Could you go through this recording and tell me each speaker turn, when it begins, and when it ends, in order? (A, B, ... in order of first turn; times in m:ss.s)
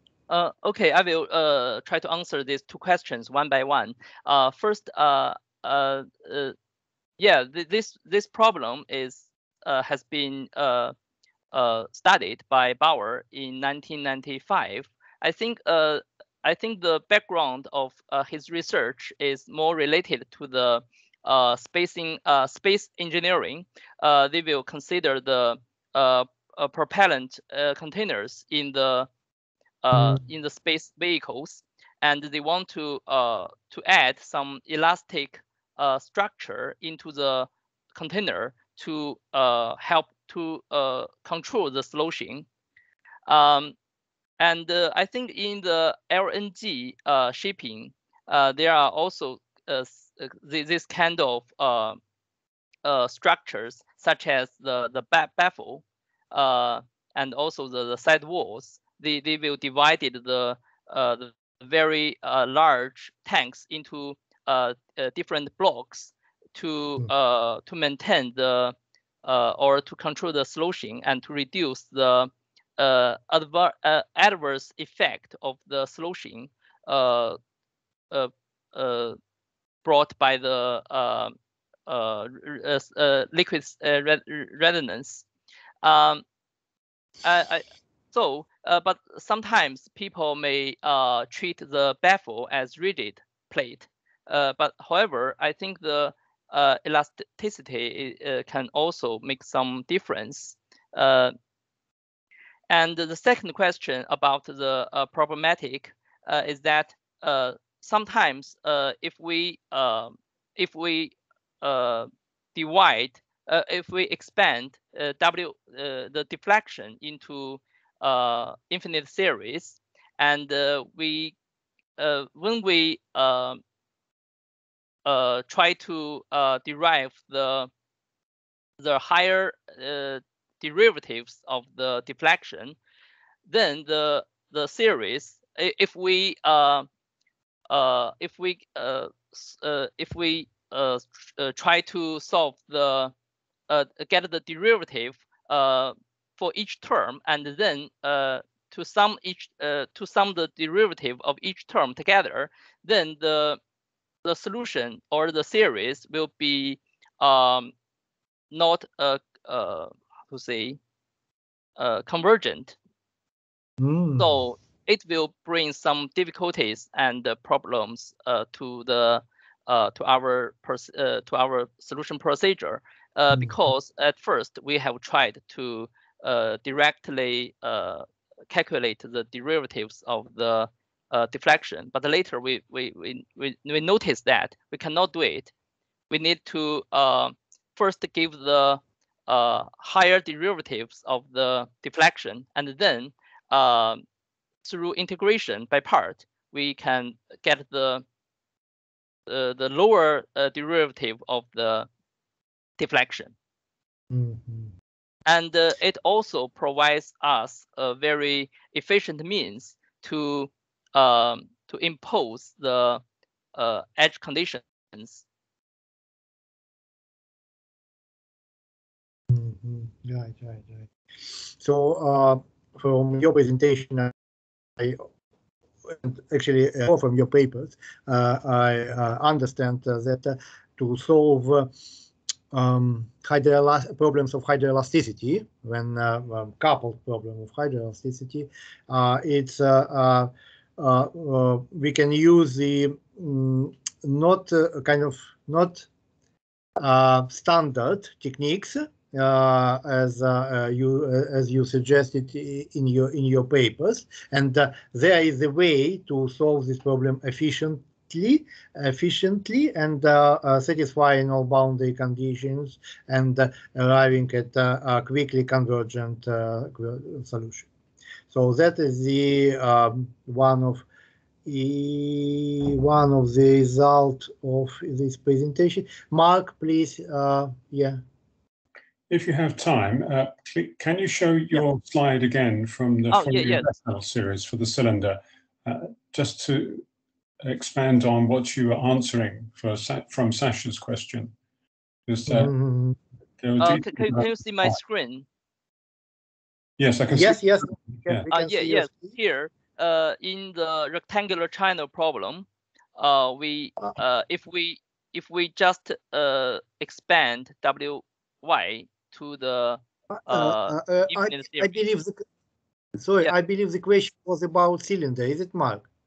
0:00.3-0:06.6 A
0:07.2-0:10.9 A
0:11.5-0:29.1 A
0:29.8-0:42.4 A
0:29.9-0:30.2 B
0:43.3-0:43.7 A
0:44.4-0:52.0 A
0:52.8-1:17.4 A
1:18.1-1:19.2 A
1:19.8-1:21.3 A
1:21.9-1:25.3 A
1:25.8-1:26.2 A
1:27.2-1:41.3 A
1:42.7-2:01.4 A
2:02.0-2:03.6 A
2:05.0-2:07.7 A
2:08.8-2:12.8 A
2:13.5-2:16.9 A
2:17.7-2:23.1 A
2:23.7-2:33.6 A
2:34.2-2:37.7 A
2:38.5-2:40.8 A
2:41.8-2:42.8 A
2:43.8-2:44.4 B
2:44.2-3:05.5 A
3:06.1-3:14.0 A
3:14.6-3:18.0 A
3:19.3-3:21.9 A
3:22.8-3:23.3 A
3:24.1-3:24.7 B
3:25.3-3:33.0 A
3:33.6-3:35.2 A
3:39.3-3:40.9 B
3:41.6-3:44.1 B
3:44.8-3:45.0 B
3:45.8-3:51.7 B
3:52.5-4:05.9 B
4:06.8-4:27.7 B
4:28.3-4:30.9 B
4:31.4-4:38.0 B
4:39.1-4:46.8 C
4:43.1-4:43.7 A
4:47.4-4:51.3 C
4:52.1-4:52.5 C
4:52.3-4:53.0 B
4:53.4-4:54.8 C
4:53.6-4:55.3 A
4:56.8-4:58.2 C
4:57.1-4:59.1 B
4:58.3-5:11.8 A
5:10.1-5:12.2 B
5:13.0-5:15.9 B